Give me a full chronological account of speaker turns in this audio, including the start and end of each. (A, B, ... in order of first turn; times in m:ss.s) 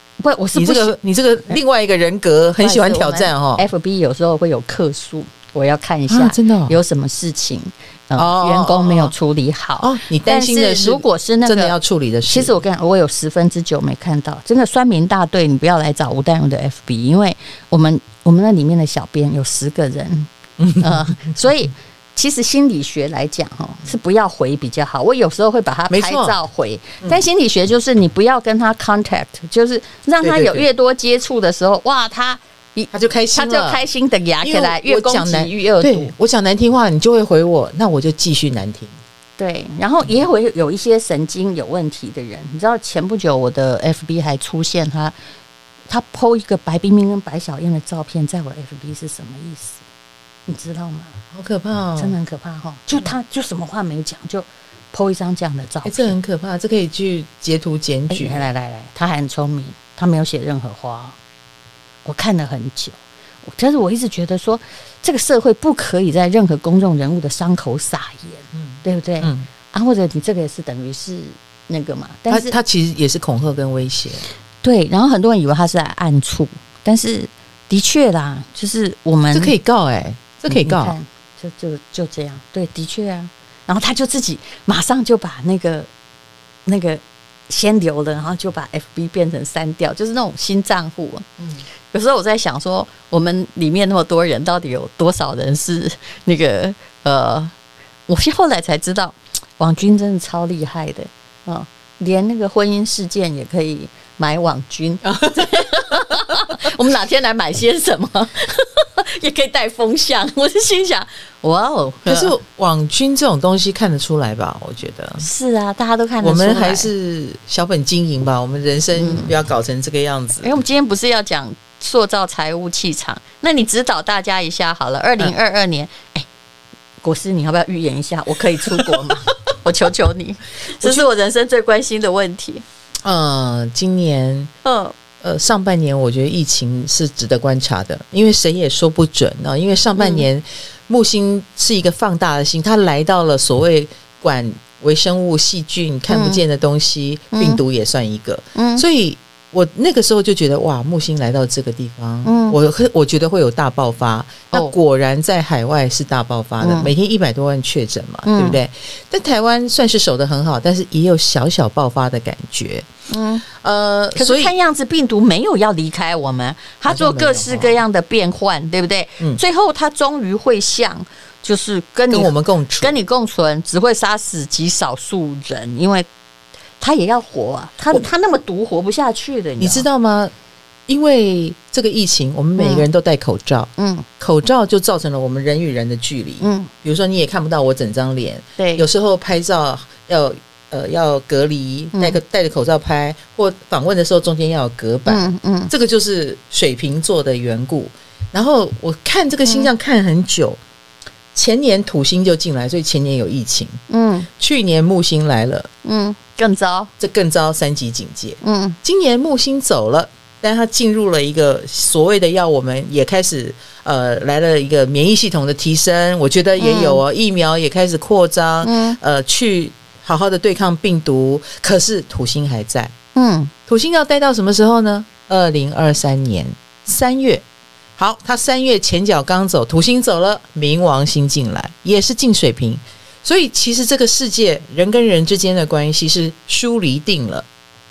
0:00.2-0:01.0 A
0:00.6-0:03.6 B
0:02.6-0:11.8 A
0:06.1-0:06.8 B
0:08.2-0:09.1 B
0:09.8-0:12.5 B
0:12.3-0:36.1 A
0:20.6-0:21.4 B
0:25.9-0:26.4 B
0:30.2-0:30.7 B
0:32.9-0:33.8 B
0:34.4-0:38.9 B
0:39.4-0:45.2 A
0:45.9-0:49.8 A
0:50.5-0:51.2 A
0:51.3-0:52.2 B
0:52.0-0:56.2 A
0:55.8-0:58.4 B
0:58.1-1:01.2 A
1:02.0-1:12.6 A
1:08.5-1:09.5 B
1:12.3-1:14.2 B
1:14.6-1:19.5 A
1:19.3-1:21.0 B
1:20.5-1:25.9 A
1:26.7-1:31.3 A
1:31.9-1:37.5 A
1:38.1-1:52.3 A
1:45.1-1:45.6 B
1:52.1-1:55.3 B
1:55.2-1:56.9 A
1:56.2-2:00.5 B
1:58.9-1:59.3 A
2:00.4-2:06.3 A
2:07.0-2:12.6 A
2:10.8-2:11.1 B
2:13.0-2:14.5 B
2:14.6-2:14.9 A
2:15.2-2:42.9 B
2:20.0-2:20.3 A
2:26.1-2:26.4 A
2:27.3-2:27.6 A
2:28.6-2:28.8 A
2:32.2-2:32.6 A
2:36.6-2:36.9 A
2:38.3-2:38.6 A
2:43.1-2:43.4 A
2:43.5-2:44.5 B
2:44.2-2:56.1 A
2:46.9-2:47.8 B
2:52.1-2:53.0 B
2:56.8-2:59.9 A
2:59.6-3:00.3 B
3:00.9-3:20.6 B
3:02.6-3:02.9 A
3:03.8-3:04.1 A
3:06.4-3:06.7 A
3:08.6-3:08.9 A
3:11.9-3:12.2 A
3:15.1-3:15.7 A
3:21.3-3:23.8 B
3:23.9-3:24.3 A
3:24.4-3:25.7 B
3:25.8-3:26.9 A
3:27.0-3:42.9 B
3:28.4-3:28.8 A
3:36.6-3:37.0 A
3:38.6-3:39.0 A
3:43.2-3:43.5 A
3:43.7-3:47.4 B
3:48.0-3:57.4 B